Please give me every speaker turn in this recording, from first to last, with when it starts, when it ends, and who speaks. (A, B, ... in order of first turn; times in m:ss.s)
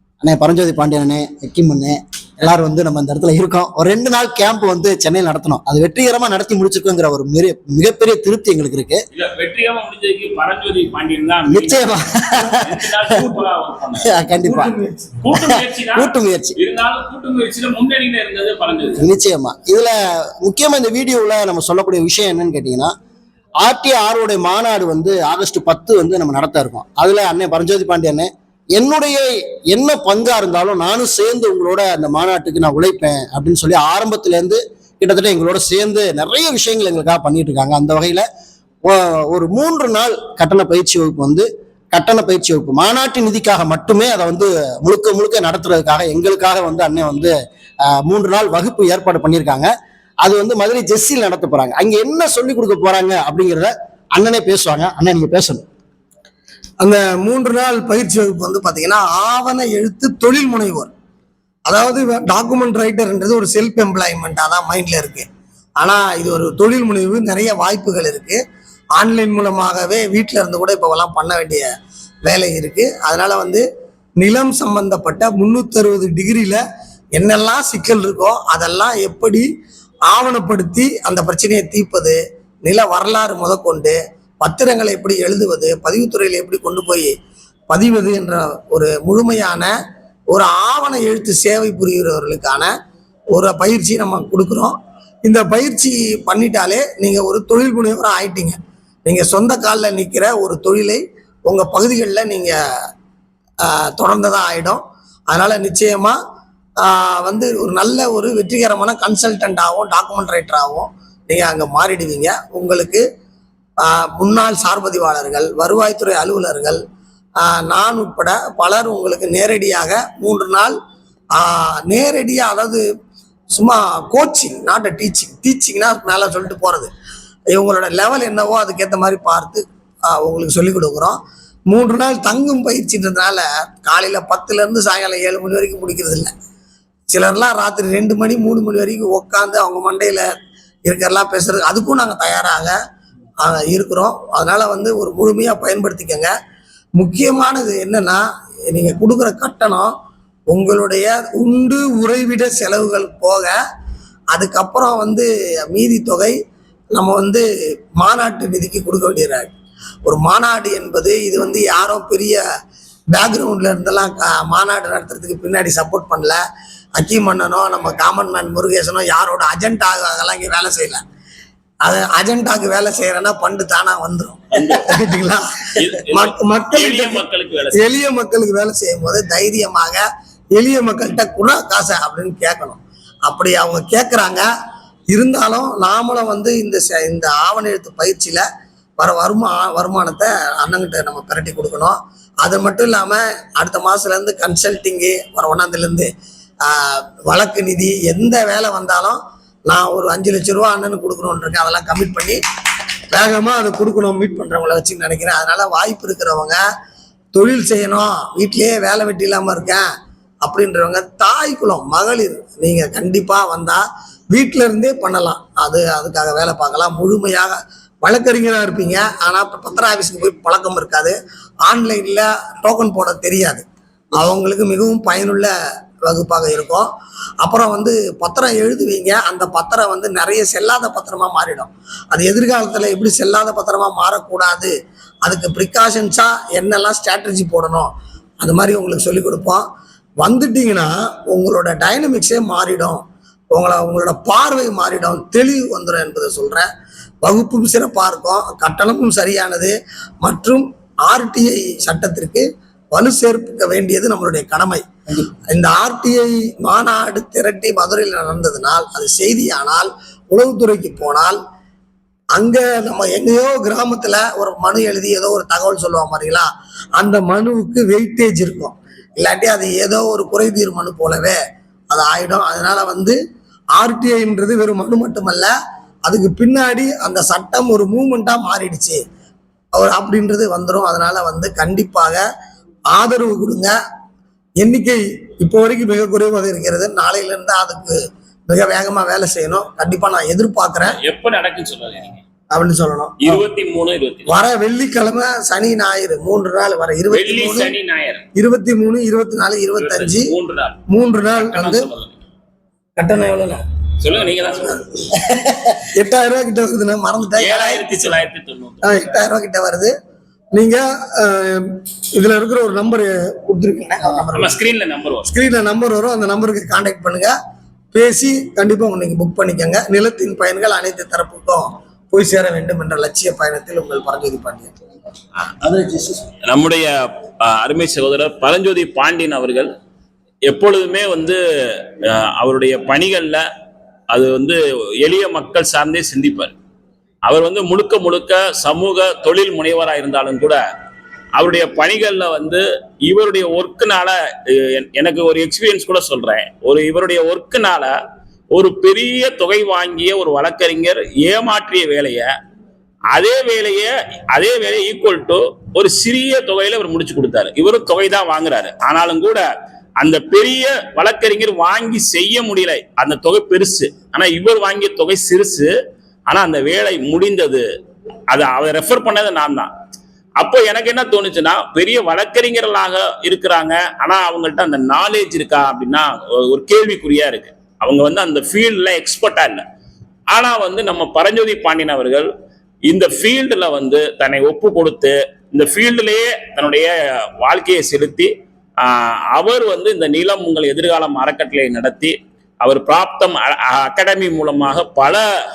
0:00.2-0:09.0 A
0:09.1-0:14.1 B
0:11.5-0:12.8 A
0:14.0-0:14.7 A
0:14.4-0:15.2 C
0:15.2-0:19.0 B
0:15.3-0:16.6 A
0:19.0-0:22.9 A
0:23.6-0:38.3 A
0:38.8-0:47.3 A
0:47.9-0:49.7 A
0:50.2-0:55.6 A
0:56.8-1:00.9 C
1:01.6-1:05.3 C
1:05.8-1:08.4 C
1:09.0-1:11.7 C
1:12.2-1:13.6 C
1:14.2-1:16.6 C
1:17.2-1:19.5 C
1:20.1-1:27.1 C
1:27.7-1:29.7 C
1:30.3-1:32.7 C
1:33.3-1:42.5 C
1:43.6-1:46.2 C
1:46.8-1:53.0 C
1:53.8-1:56.8 C
1:57.4-2:00.7 C
2:01.4-2:02.8 C
2:03.5-2:06.9 C
2:07.5-2:11.2 C
2:11.7-2:16.3 C
2:17.1-2:20.2 C
2:20.8-2:22.8 C
2:23.4-2:26.3 C
2:27.0-2:28.2 C
2:28.7-2:29.9 C
2:30.5-2:33.5 C
2:34.3-2:36.3 C
2:36.9-2:37.4 C
2:38.0-2:39.5 C
2:40.0-2:42.4 C
2:43.1-2:46.4 C
2:47.0-2:51.0 C
2:51.8-2:57.2 C
2:54.5-2:54.9 B
2:55.8-2:57.9 B
2:57.7-3:04.4 C
3:05.1-3:08.4 C
3:09.0-3:16.1 C
3:16.6-3:22.4 C
3:23.1-3:26.6 C
3:27.3-3:29.8 C
3:30.4-3:41.1 C
3:41.6-3:45.5 C
3:46.0-3:46.9 C
3:47.4-3:54.7 C
3:55.2-3:59.6 C
4:00.2-4:03.0 C
4:03.5-4:06.7 C
4:07.2-4:21.4 C
4:22.3-4:31.4 C
4:31.9-4:33.2 C
4:33.8-4:35.5 C
4:36.0-4:39.0 C
4:39.7-4:42.2 C
4:42.9-4:43.7 C
4:44.6-4:51.0 C
4:51.0-4:52.2 B
4:52.5-4:53.4 C
4:53.2-4:54.3 B
4:54.3-4:57.7 C
4:57.1-4:58.2 B
4:58.4-5:00.3 C
4:59.8-5:02.2 B
5:00.9-5:01.9 C
5:03.0-5:03.6 C
5:04.0-5:04.8 B
5:06.0-5:08.1 C
5:07.4-5:09.2 B
5:08.8-5:09.9 C
5:10.5-5:14.6 C
5:14.3-5:15.3 B
5:15.3-5:17.3 C
5:17.9-5:24.7 C
5:25.6-5:26.2 A
5:26.4-5:26.9 B
5:27.4-5:29.7 B
5:30.5-5:33.4 B
5:34.1-5:36.5 B
5:37.2-5:40.6 B
5:41.4-5:47.9 B
5:48.5-5:52.3 B
5:53.1-5:59.4 B
6:00.0-6:05.7 B
6:06.3-6:07.6 B
6:08.3-6:09.7 B
6:10.4-6:19.6 B
6:20.3-6:22.3 B
6:22.9-6:28.3 B
6:28.8-6:35.2 B